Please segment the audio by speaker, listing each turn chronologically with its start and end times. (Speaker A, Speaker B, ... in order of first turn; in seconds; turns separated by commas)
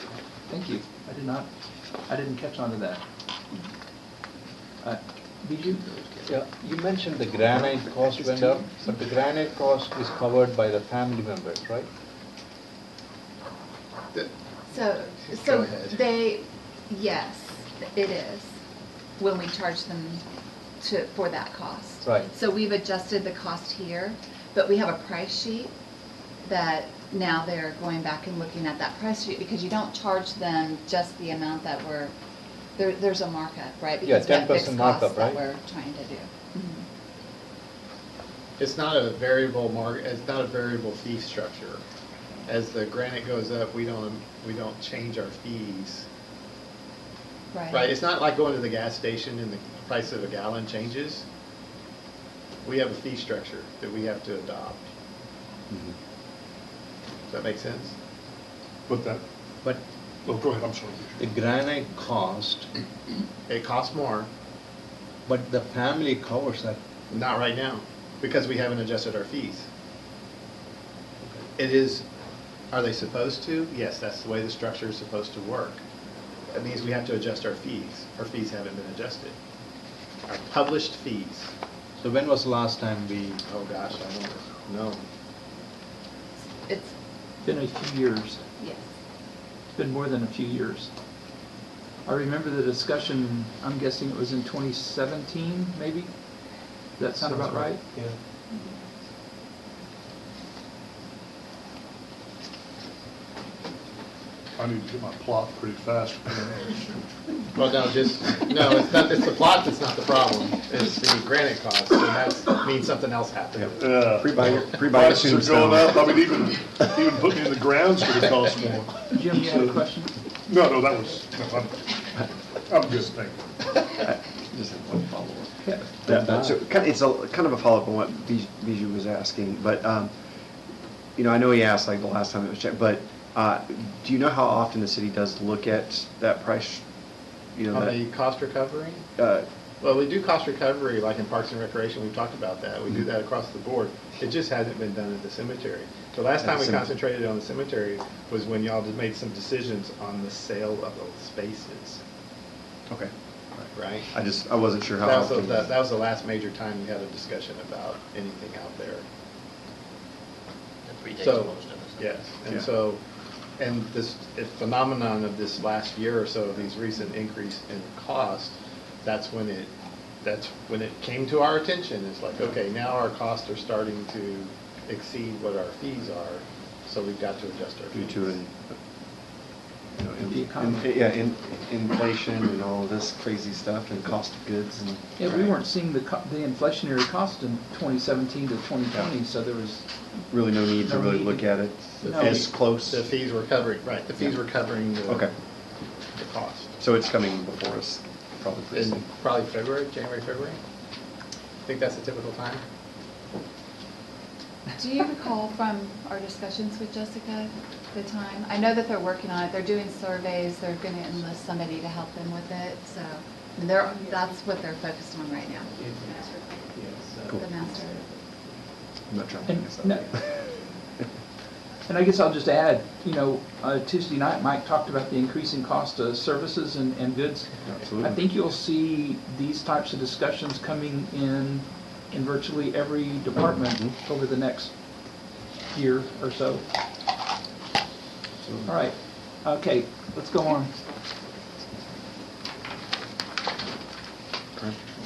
Speaker A: 0.5-1.5, Speaker A: 2.0-3.0, Speaker A: 4.8-6.1, Speaker B: 6.2-11.9, Speaker C: 14.7-18.5, Speaker D: 15.3-16.0, Speaker C: 19.2-20.2, Speaker C: 20.8-25.7, Speaker C: 26.4-32.1, Speaker C: 32.8-36.8, Speaker B: 34.0-35.4, Speaker D: 38.6-41.8, Speaker D: 42.5-46.0, Speaker C: 47.5-47.9, Speaker D: 47.7-51.2, Speaker D: 52.6-54.9, Speaker D: 57.3-57.9, Speaker E: 58.9-59.2, Speaker E: 60.2-61.2, Speaker B: 61.2-62.7, Speaker D: 63.5-64.3, Speaker B: 65.2-66.8, Speaker D: 67.1-69.7, Speaker D: 71.6-72.0, Speaker D: 72.7-75.8, Speaker D: 76.5-79.3, Speaker D: 80.3-81.5, Speaker B: 82.0-83.3, Speaker D: 83.3-85.0, Speaker C: 86.6-86.9, Speaker A: 87.4-88.4, Speaker C: 88.6-88.8, Speaker A: 89.7-90.9, Speaker A: 92.0-96.1, Speaker A: 97.0-97.9, Speaker E: 97.0-97.8, Speaker E: 104.6-107.0, Speaker D: 107.5-113.8, Speaker F: 113.6-116.1, Speaker E: 113.8-123.5, Speaker A: 119.1-120.1, Speaker F: 124.0-130.1, Speaker B: 126.1-126.5, Speaker F: 131.2-136.8, Speaker F: 137.5-137.9, Speaker D: 137.7-139.1, Speaker F: 139.2-139.4, Speaker D: 139.8-152.0, Speaker F: 146.4-146.9, Speaker F: 152.9-155.7, Speaker D: 153.7-154.1, Speaker D: 155.0-159.0, Speaker G: 160.9-161.9, Speaker D: 161.2-163.0, Speaker D: 163.6-169.7, Speaker D: 170.2-178.4, Speaker F: 177.9-178.8, Speaker F: 179.9-185.6, Speaker A: 180.2-180.9, Speaker A: 185.2-189.8, Speaker F: 190.3-193.0, Speaker A: 190.8-192.5, Speaker D: 192.0-195.3, Speaker F: 195.1-195.3, Speaker D: 196.1-196.7, Speaker F: 196.8-199.0, Speaker D: 198.7-200.6, Speaker D: 201.6-202.6, Speaker C: 204.8-216.2, Speaker G: 215.8-217.4, Speaker C: 217.3-218.0, Speaker F: 219.1-220.3, Speaker A: 219.5-220.1, Speaker A: 221.9-234.8, Speaker F: 227.7-228.2, Speaker A: 235.7-236.6, Speaker F: 238.4-238.7, Speaker A: 238.7-240.7